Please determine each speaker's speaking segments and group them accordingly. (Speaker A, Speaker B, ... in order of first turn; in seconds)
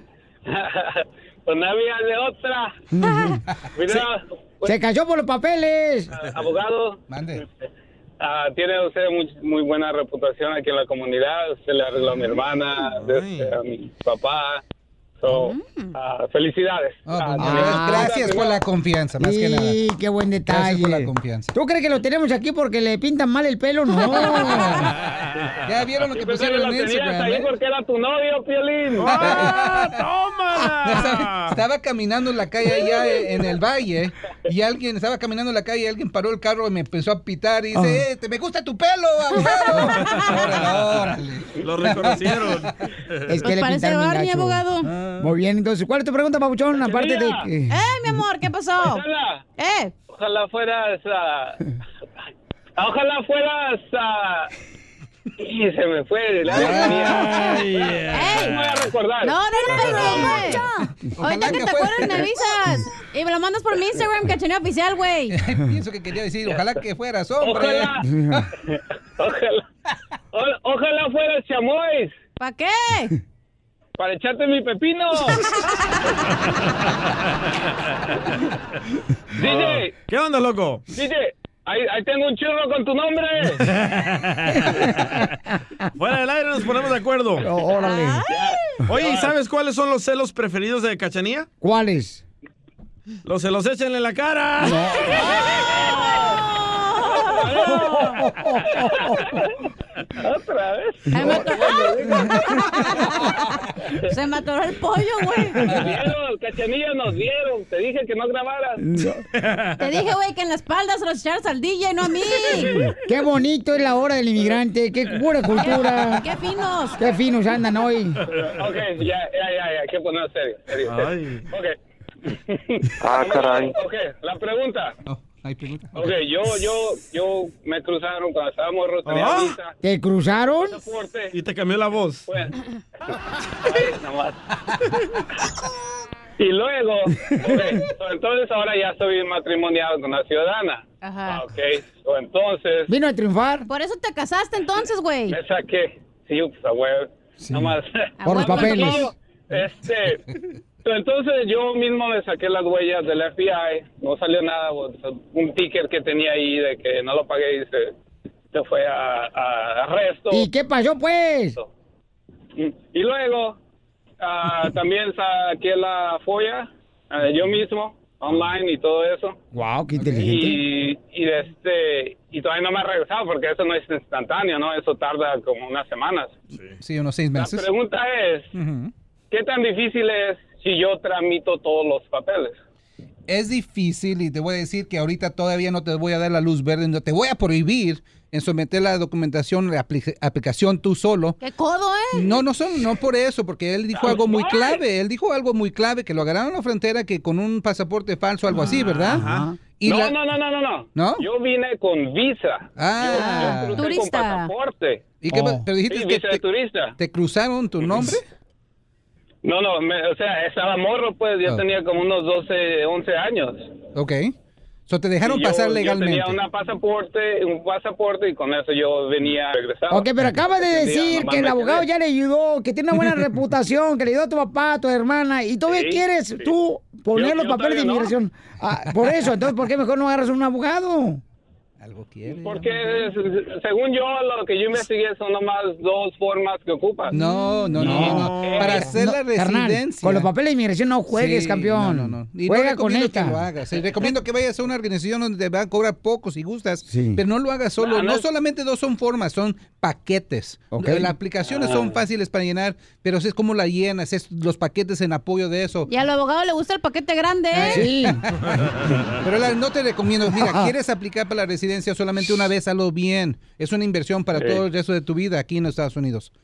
Speaker A: 0.5-2.7, 3.8-4.7, 6.2-7.0, 8.2-14.6, 15.2-18.6, 26.1-29.1, 46.8-47.4, 48.9-49.4, 50.0-51.6, 52.8-54.5, 55.4-59.3, 67.4-68.0, 69.2-69.6, 70.3-72.1, 74.0-75.4, 79.4-79.9, 80.9-83.5, 97.5-97.8, 100.2-102.3, 105.7-108.8, 118.6-121.7, 123.0-124.9, 125.9-129.7, 130.8-131.3, 133.7-134.4, 136.4-142.9, 145.3-150.2, 150.8-157.9, 158.5-160.4, 162.6-163.6, 164.2-169.3, 170.1-176.3, 177.4-178.5, 179.3-182.5, 194.0-194.7, 199.8-205.0, 205.8-206.9, 209.4-213.7, 215.2-220.1, 220.6-221.8, 225.7-226.0, 227.1-228.1, 232.3-237.2, 237.9-238.9, 247.8-248.2, 251.6-251.9
Speaker B: 2.9-3.4, 4.6-6.1, 17.4-18.4, 19.2-24.8, 43.3-44.6, 45.2-47.8, 68.0-68.3, 87.4-88.2, 91.6-92.2, 94.6-95.1, 97.9-98.6, 101.2-101.5, 108.8-109.2, 113.0-116.3, 117.0-118.2, 129.8-130.8, 142.9-143.7, 147.4-149.1, 160.3-161.6, 169.5-170.6, 199.0-199.6, 205.3-205.6, 219.9-231.2, 237.8-238.3, 238.9-243.4, 246.8-247.2, 250.7-251.1, 257.6-258.2
Speaker C: 7.1-7.4, 17.1-19.8, 20.5-21.5, 25.6-27.5, 29.0-30.0, 30.9-42.7, 44.8-45.3, 56.6-57.0, 61.2-62.3, 65.3-68.4, 125.1-126.0, 176.8-177.7, 178.5-178.9, 183.3-191.4, 192.1-200.1, 200.9-201.2, 202.8-203.8, 205.2-206.4, 207.0-208.2, 213.9-214.3, 214.9-216.4, 231.8-233.1, 237.1-240.3, 241.1-255.9, 257.5-258.5, 259.2-266.3
Speaker D: 12.8-13.6, 29.0-31.6, 41.6-42.7, 56.5-58.8, 59.9-60.6, 79.4-80.9, 83.5-85.2, 86.0-87.5, 88.9-91.5, 93.2-95.1, 120.8-121.5, 129.0-129.6, 131.3-132.3, 198.5-199.4, 237.8-238.9
Speaker E: 15.3-15.9, 24.1-24.5, 43.5-44.9, 47.7-49.0, 49.6-50.0, 58.1-58.6, 59.2-65.3, 72.4-73.1, 87.8-88.8, 95.9-98.0, 101.1-103.5, 104.1-105.7, 109.8-112.9, 115.6-117.0, 141.0-141.4, 143.7-145.4, 148.2-149.1, 191.4-192.4, 203.2-204.5, 255.9-257.9